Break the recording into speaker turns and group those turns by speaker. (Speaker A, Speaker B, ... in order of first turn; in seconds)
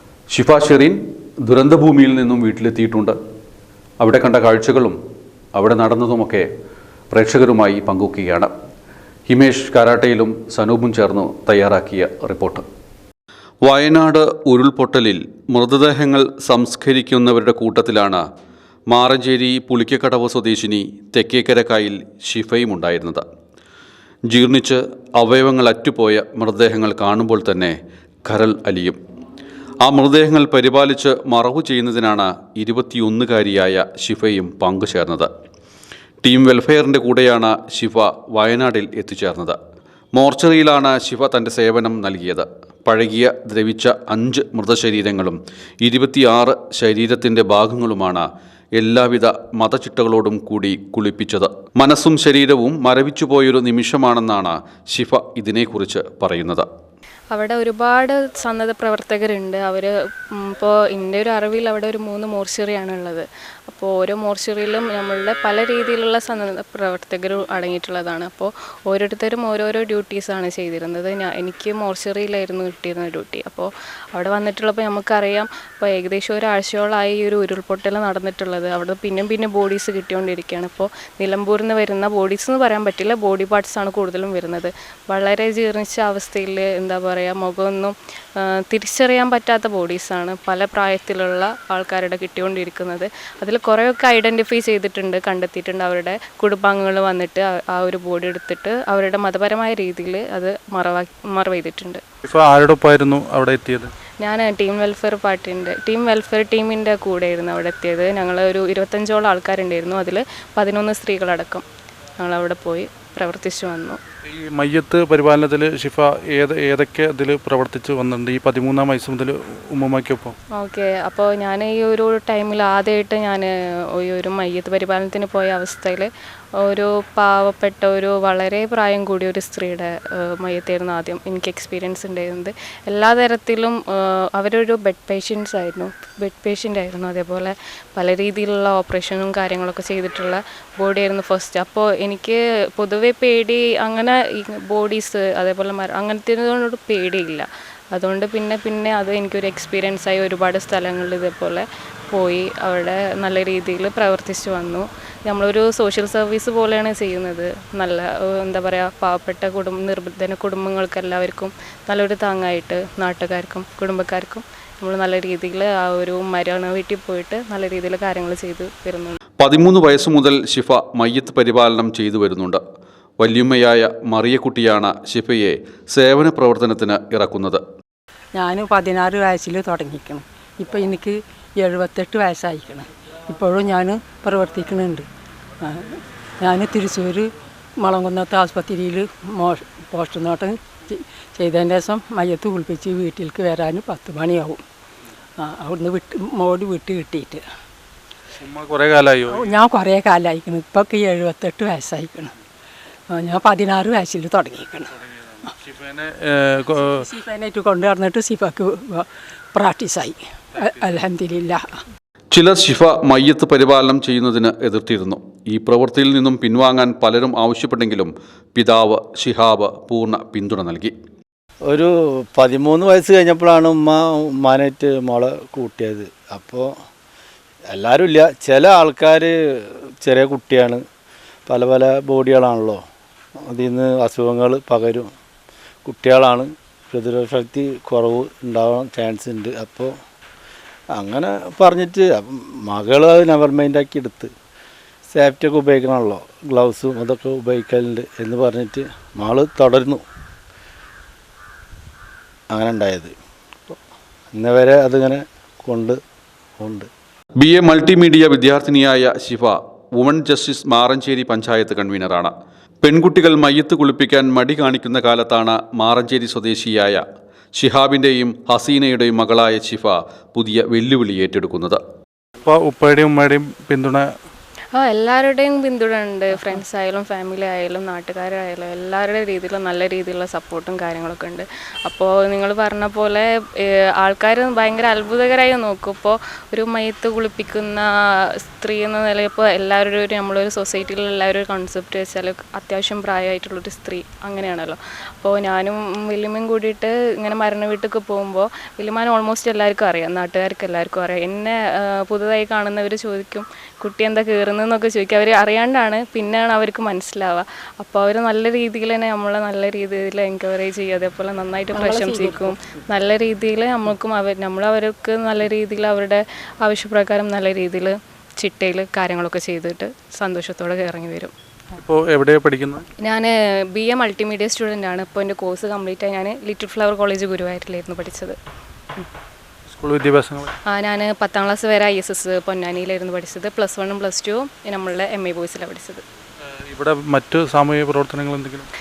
Speaker A: 0.3-3.2, 4.0-5.0, 5.5-6.5, 7.1-8.5, 9.3-12.7, 13.7-18.2, 18.9-23.2, 24.3-29.0, 29.8-35.3, 36.2-39.6, 40.1-56.7, 169.4-172.6, 173.2-177.6, 212.3-220.9, 257.4-267.0, 267.6-271.8
Speaker B: 57.3-102.0, 104.2-111.7, 112.2-114.0, 120.6-126.1, 126.6-169.2, 274.8-321.3, 323.0-328.4, 330.7-336.0
Speaker C: 102.3-103.9, 114.3-120.3, 198.4-199.5, 205.5-207.1, 272.4-274.1, 321.8-322.9, 329.7-330.5, 336.7-338.7
Speaker D: 178.3-185.1, 185.6-194.6, 195.4-197.4, 199.3-202.3, 203.1-205.0, 206.6-211.8, 311.7-312.6
Speaker E: 221.7-226.7, 227.7-230.8, 231.5-232.8, 233.5-235.1, 235.8-239.9, 241.0-244.3, 245.1-250.0, 252.5-253.1, 254.3-256.0, 256.6-256.9